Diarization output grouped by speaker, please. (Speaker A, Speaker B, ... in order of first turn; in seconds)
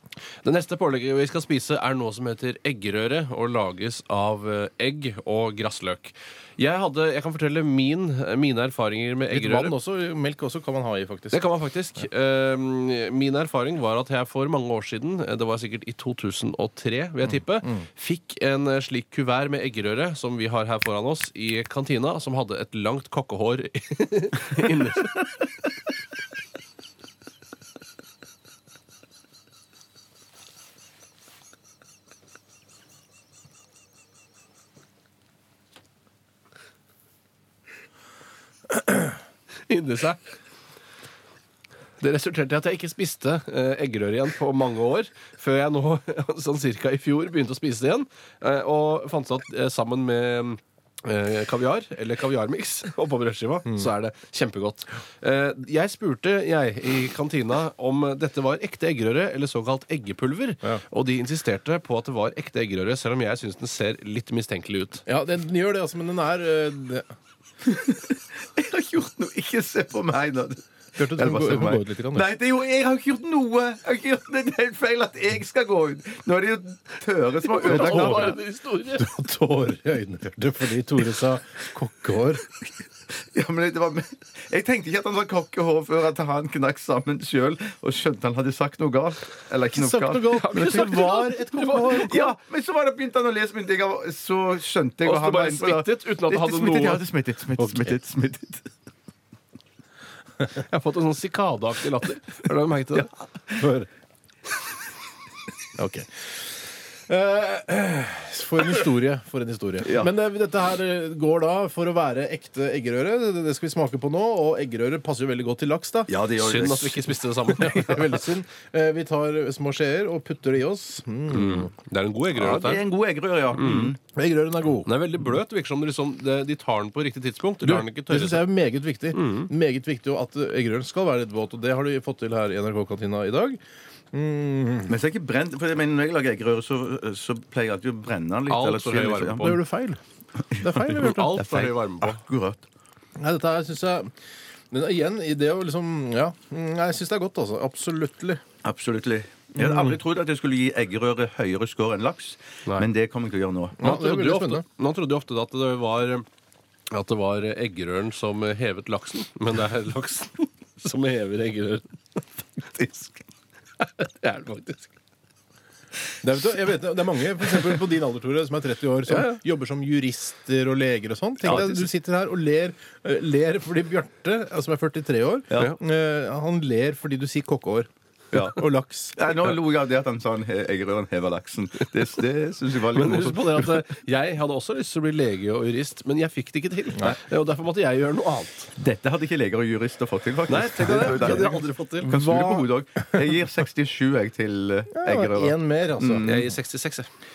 Speaker A: 0.4-9.7, 11.3-25.2, 39.7-40.2, 42.0-65.0, 77.5-79.1, 90.3-92.3, 95.0-97.0, 100.6-103.1, 116.4-118.1, 121.3-122.8, 123.6-124.0, 124.9-128.5, 129.2-129.5, 138.5-139.5, 140.9-142.2, 153.8-156.2, 156.9-162.2, 163.8-164.9, 182.9-188.7, 190.5-192.2, 196.2-197.1
Speaker B: 9.3-11.4, 65.1-67.1, 71.0-72.3, 77.7-78.4, 79.0-82.5, 89.8-92.3, 97.6-98.0, 103.6-103.9, 105.8-106.5, 107.1-116.1, 117.5-121.7, 124.1-124.9, 127.6-133.6, 134.1-134.9, 139.4-140.0, 140.6-141.3, 143.2-144.1, 144.7-148.4, 149.6-150.0, 153.8-154.6, 166.2-179.2, 192.1-192.7, 194.9-196.3
Speaker C: 67.7-78.4, 83.2-91.1, 91.9-98.7, 109.8-110.1, 116.1-117.1, 122.3-124.0, 134.9-139.6, 140.5-142.7, 148.6-153.8, 162.8-163.1, 171.5-171.8, 175.5-175.8, 178.3-178.6, 179.2-183.7, 188.8-196.5